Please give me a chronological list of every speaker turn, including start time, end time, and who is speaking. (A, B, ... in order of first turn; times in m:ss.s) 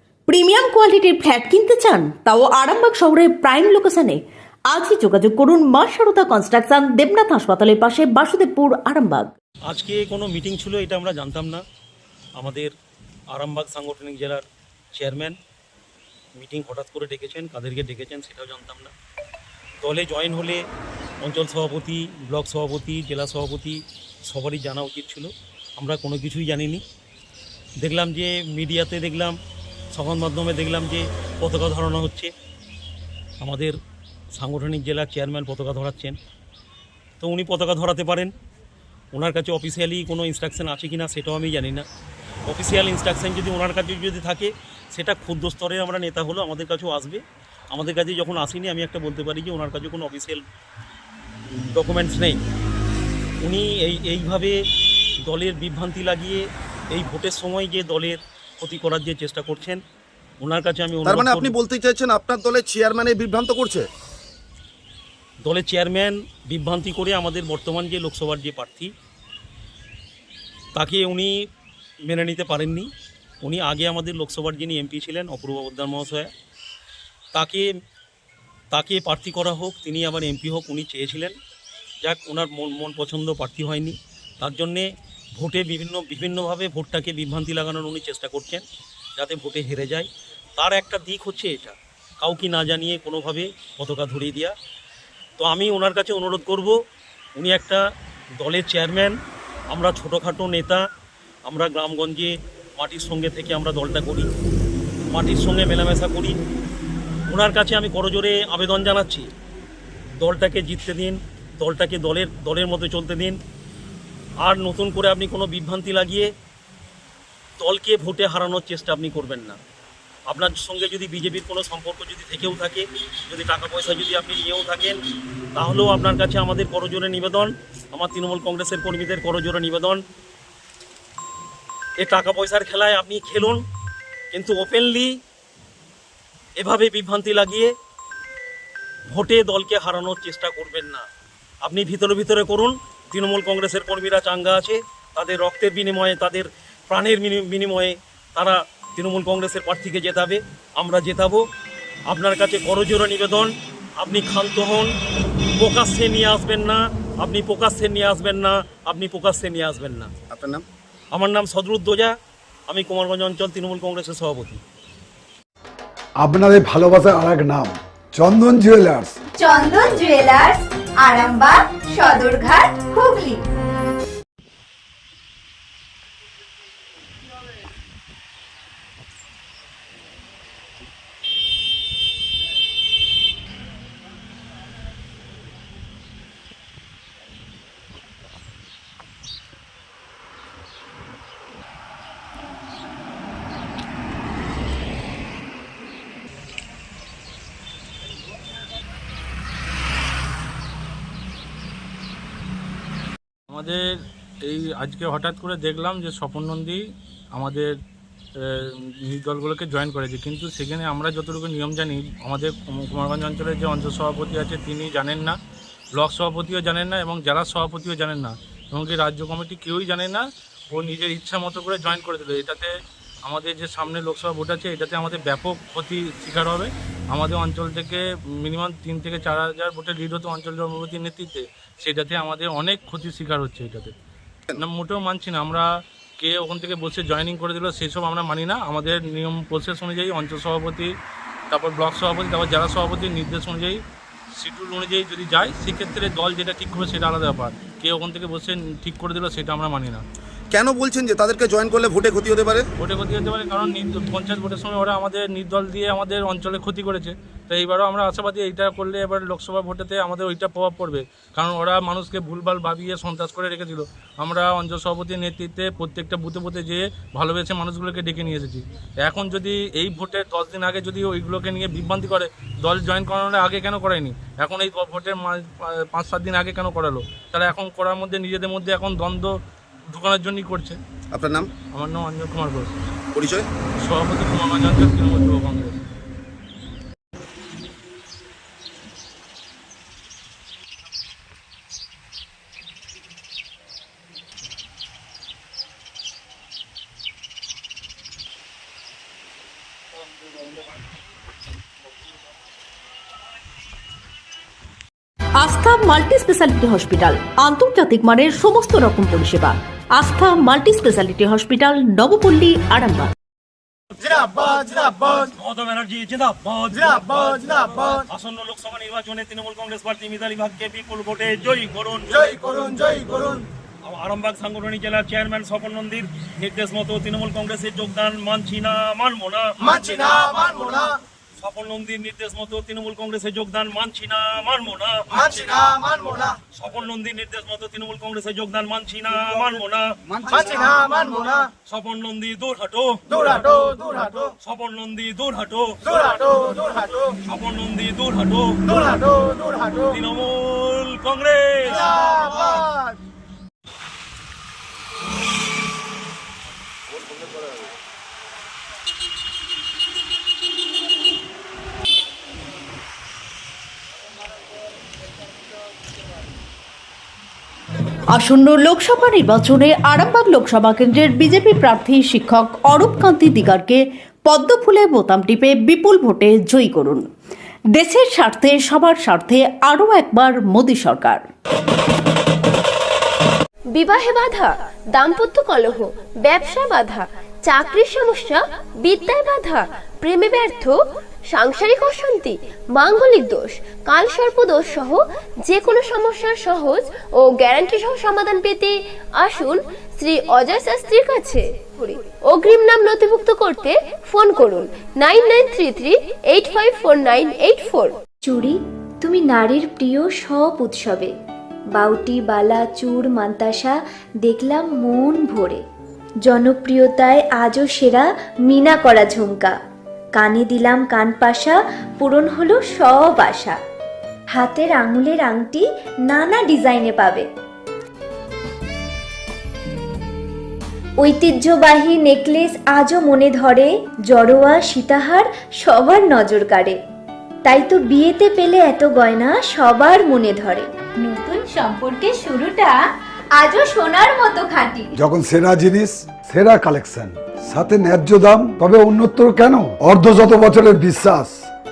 0:00.3-0:09.3 A
0:09.7-0:11.6 B
0:12.4-0:12.7 B
0:13.3-0:14.4 B
0:15.0-0:15.3 B
0:16.4-0:18.9 B
0:19.8-0:20.6 B
0:21.2-0:23.8 B
0:24.3-0:26.8 B
0:27.8-0:29.3 B
0:29.9-0:32.3 B
0:33.4-0:33.7 B
0:34.4-0:36.1 B
0:37.2-0:38.3 B
0:39.1-0:41.8 B
0:42.5-0:47.2 B
0:47.7-0:50.4 B
0:51.5-0:52.4 B
0:53.4-0:54.5 B
0:55.3-0:59.8 B
1:00.4-1:01.6 B
1:01.0-1:03.9 C
1:05.4-1:08.9 B
1:10.7-1:11.3 B
1:12.1-1:12.9 B
1:13.4-1:16.3 B
1:17.3-1:17.6 B
1:18.7-1:21.3 B
1:22.0-1:24.8 B
1:25.4-1:28.6 B
1:29.2-1:30.1 B
1:30.6-1:34.5 B
1:35.4-1:36.7 B
1:37.4-1:37.8 B
1:38.4-1:39.1 B
1:39.7-1:40.8 B
1:41.5-1:44.3 B
1:45.1-1:46.4 B
1:47.3-1:49.3 B
1:50.2-1:53.4 B
1:54.4-1:56.3 B
1:57.6-1:59.6 B
2:00.3-2:05.0 B
2:05.6-2:10.0 B
2:12.0-2:13.6 B
2:14.3-2:15.1 B
2:16.6-2:17.7 B
2:19.1-2:21.0 B
2:21.6-2:31.4 B
2:32.1-2:34.9 B
2:35.6-2:40.1 B
2:40.3-2:40.6 C
2:41.1-2:42.1 B
2:42.7-2:44.6 B
2:46.2-2:49.2 D
2:49.4-2:53.3 E
3:23.5-3:23.8 F
3:24.4-3:26.8 F
3:27.3-3:27.7 F
3:28.4-3:35.4 F
3:36.0-3:42.7 F
3:43.2-3:53.9 F
3:54.5-3:55.6 F
3:56.2-4:00.9 F
4:01.5-4:03.8 F
4:04.4-4:10.0 F
4:10.5-4:12.6 C
4:12.8-4:39.3 F
4:39.9-4:40.8 F
4:41.1-4:41.5 C
4:41.7-4:42.7 F
4:43.1-4:43.5 C
4:43.8-4:45.7 F
5:05.4-5:13.1 A
5:14.2-5:52.7 B
6:08.1-6:17.1 A
6:17.7-6:21.2 A
6:23.7-6:30.8 G
6:31.3-6:47.9 G
6:48.2-6:51.1 H
6:51.7-6:55.6 H
6:56.2-6:59.5 H
7:00.1-7:03.6 H
7:04.3-7:07.2 H
7:11.0-7:16.8 H
7:17.4-7:22.8 H
7:23.4-7:24.9 H
7:24.9-7:31.4 D